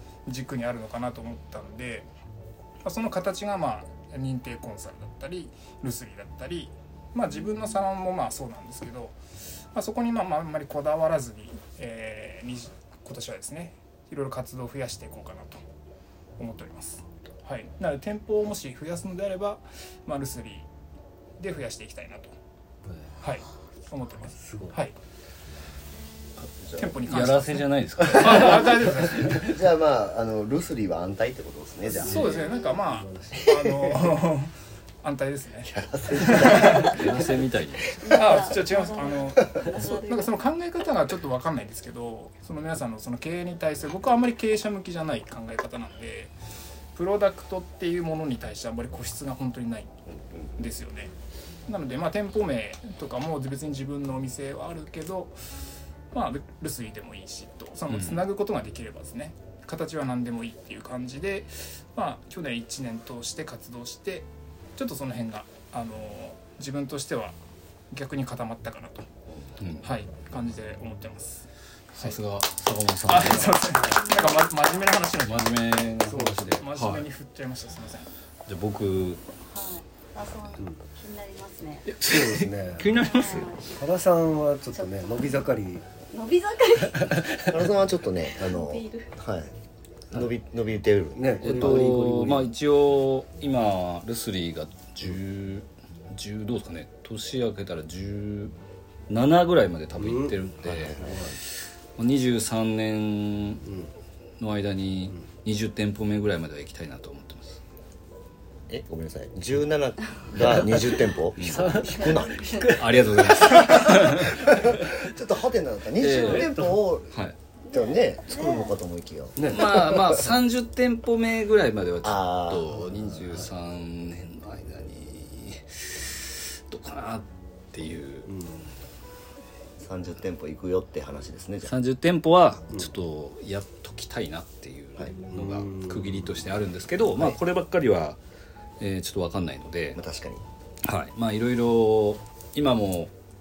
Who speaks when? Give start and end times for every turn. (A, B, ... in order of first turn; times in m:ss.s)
0:00.2-0:02.1 A
0:02.8-0:09.2 A
0:09.7-0:15.6 A
0:16.4-0:20.7 A
0:21.4-0:22.3 A
0:23.2-0:24.9 A
0:24.3-0:24.8 B
0:26.6-0:27.0 C
0:26.8-0:29.5 A
0:27.0-0:29.3 D
0:29.3-0:32.3 C
0:31.9-0:37.0 A
0:32.7-0:33.5 B
0:35.6-0:37.2 C
0:36.6-0:37.9 D
0:38.0-0:40.4 E
0:38.1-0:46.3 A
0:46.9-0:49.9 A
0:50.6-0:51.1 A
0:51.7-0:55.4 A
0:56.1-1:07.4 A
0:57.9-0:58.2 D
1:07.9-1:09.1 A
1:09.6-1:09.9 D
1:09.8-1:12.2 A
1:11.9-1:13.6 D
1:13.1-1:15.6 A
1:14.0-1:14.4 E
1:15.2-1:17.1 D
1:16.1-1:16.5 B
1:16.1-1:18.1 A
1:18.5-1:19.2 D
1:19.4-1:21.9 E
1:21.9-1:23.6 D
1:22.0-1:22.9 B
1:23.0-1:23.6 E
1:23.6-1:25.8 B
1:24.7-1:25.3 E
1:26.1-1:27.2 E
1:27.1-1:27.4 B
1:27.4-1:29.5 C
1:28.4-1:29.1 E
1:30.1-1:31.8 C
1:31.2-1:32.5 B
1:31.4-1:38.5 D
1:39.1-1:41.0 D
1:40.0-1:40.3 B
1:40.6-1:41.3 C
1:41.0-1:41.4 B
1:42.0-1:43.6 D
1:43.6-1:43.9 B
1:44.4-1:47.6 D
1:48.7-1:52.8 C
1:51.4-1:51.8 D
1:51.4-1:52.8 B
1:52.6-1:54.5 D
1:53.4-1:57.2 C
1:56.0-1:57.3 D
1:57.7-2:00.2 C
1:57.7-1:58.7 E
1:59.4-1:59.7 B
1:59.5-2:08.3 D
2:02.0-2:02.8 C
2:08.3-2:08.7 B
2:09.8-2:11.7 C
2:11.6-2:18.2 D
2:15.3-2:16.3 B
2:18.8-2:20.0 D
2:19.9-2:20.4 C
2:20.8-2:23.1 D